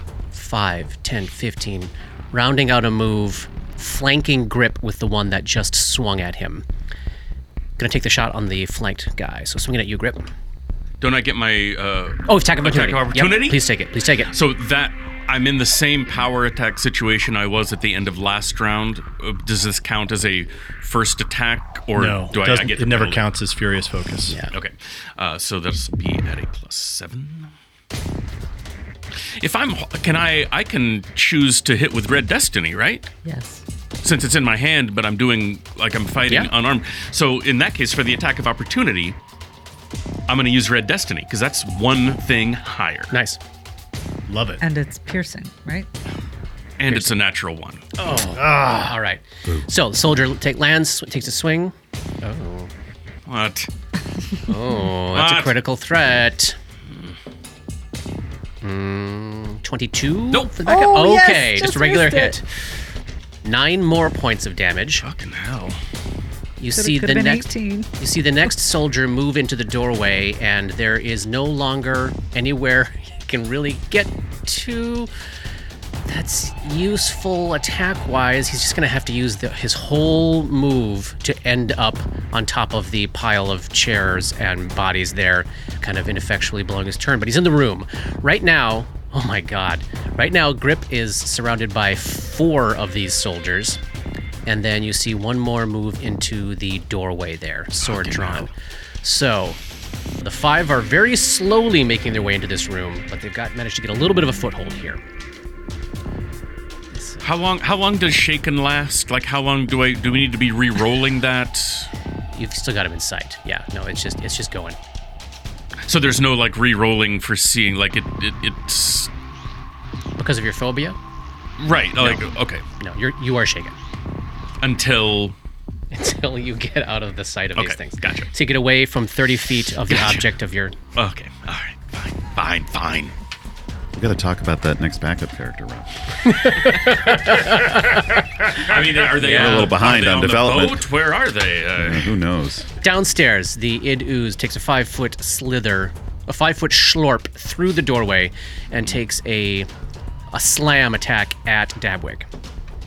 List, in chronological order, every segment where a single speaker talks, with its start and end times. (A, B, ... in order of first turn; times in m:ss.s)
0:00.3-0:06.6 A
0:07.8-0:10.3 A
0:11.0-0:13.6 B
0:12.3-0:14.3 A
0:14.3-0:23.2 B
0:22.0-0:24.4 C
0:24.3-0:24.5 A
0:24.5-0:27.5 B
0:29.2-0:33.1 B
0:33.2-0:33.6 D
0:34.0-0:39.2 B
0:40.3-0:43.1 B
0:43.1-0:43.4 A
0:44.3-0:44.6 C
0:44.6-0:45.9 D
0:46.8-0:47.8 B
0:48.0-0:52.7 A
0:48.3-0:48.9 C
0:53.3-0:53.7 B
0:54.5-0:56.6 A
0:55.1-0:55.5 B
0:58.6-1:02.4 A
1:00.6-1:02.4 D
1:03.4-1:05.0 A
1:05.0-1:05.8 B
1:06.6-1:15.1 A
1:06.7-1:07.9 D
1:16.0-1:33.8 A
1:34.4-1:39.6 A
1:37.8-1:38.5 B
1:40.2-1:45.0 A
1:46.9-1:47.2 A
1:47.2-1:51.9 B
1:52.3-1:54.8 A
1:55.8-1:59.1 B
2:00.2-2:01.0 A
2:01.6-2:02.6 B
2:02.0-2:02.2 A
2:02.8-2:03.7 A
2:04.6-2:05.3 B
2:05.9-2:10.8 A
2:07.5-2:08.3 B
2:09.8-2:10.3 B
2:10.9-2:13.1 B
2:13.9-2:15.9 E
2:16.2-2:18.0 A
2:18.5-2:22.1 B
2:19.1-2:19.7 A
2:19.2-2:20.8 E
2:21.8-2:22.7 E
2:22.8-2:29.7 A
2:30.3-2:32.3 A